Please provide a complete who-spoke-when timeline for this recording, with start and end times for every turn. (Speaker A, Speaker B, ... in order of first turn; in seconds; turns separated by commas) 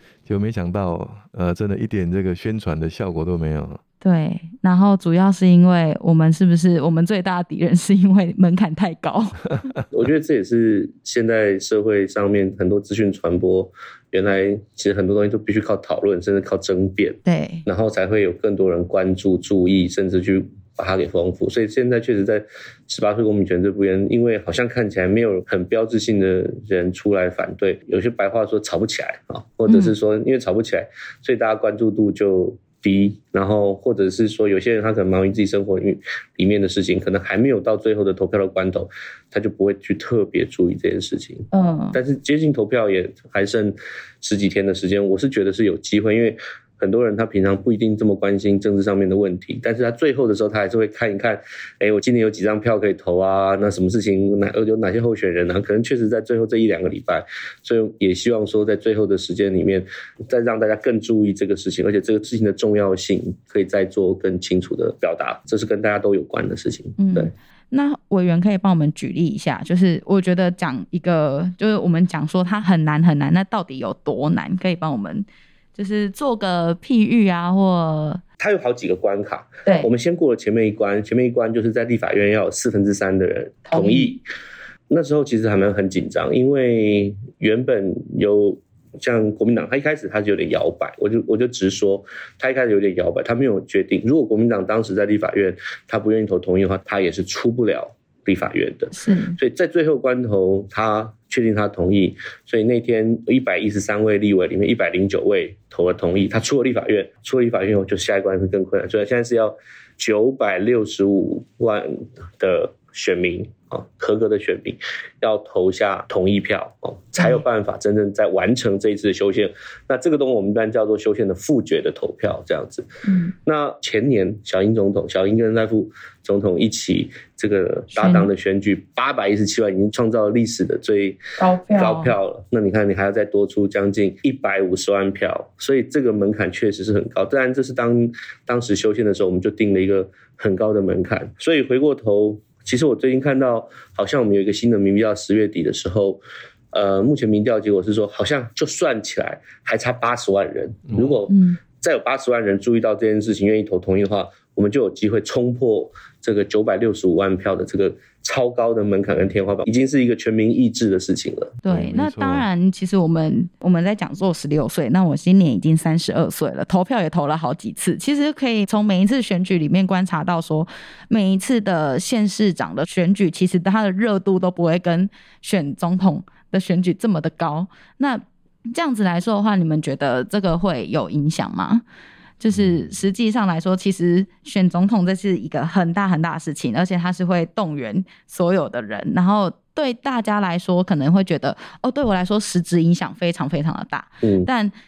Speaker A: 0.2-3.8, Speaker B: 4.0-9.4, Speaker C: 9.9-67.3, Speaker B: 17.2-17.6, Speaker B: 29.7-29.9, Speaker B: 41.5-42.0, Speaker B: 67.0-78.2, Speaker C: 78.4-84.2, Speaker B: 83.7-84.1, Speaker C: 84.9-122.9, Speaker B: 98.9-99.4, Speaker B: 117.2-117.4, Speaker B: 123.0-123.3, Speaker C: 123.4-146.2, Speaker B: 127.9-128.3, Speaker B: 131.4-132.1, Speaker C: 146.7-161.6, Speaker A: 150.9-151.1, Speaker B: 151.3-151.6, Speaker B: 161.6-181.8, Speaker A: 161.7-162.5, Speaker B: 182.4-194.7, Speaker A: 182.5-182.9, Speaker C: 194.2-194.5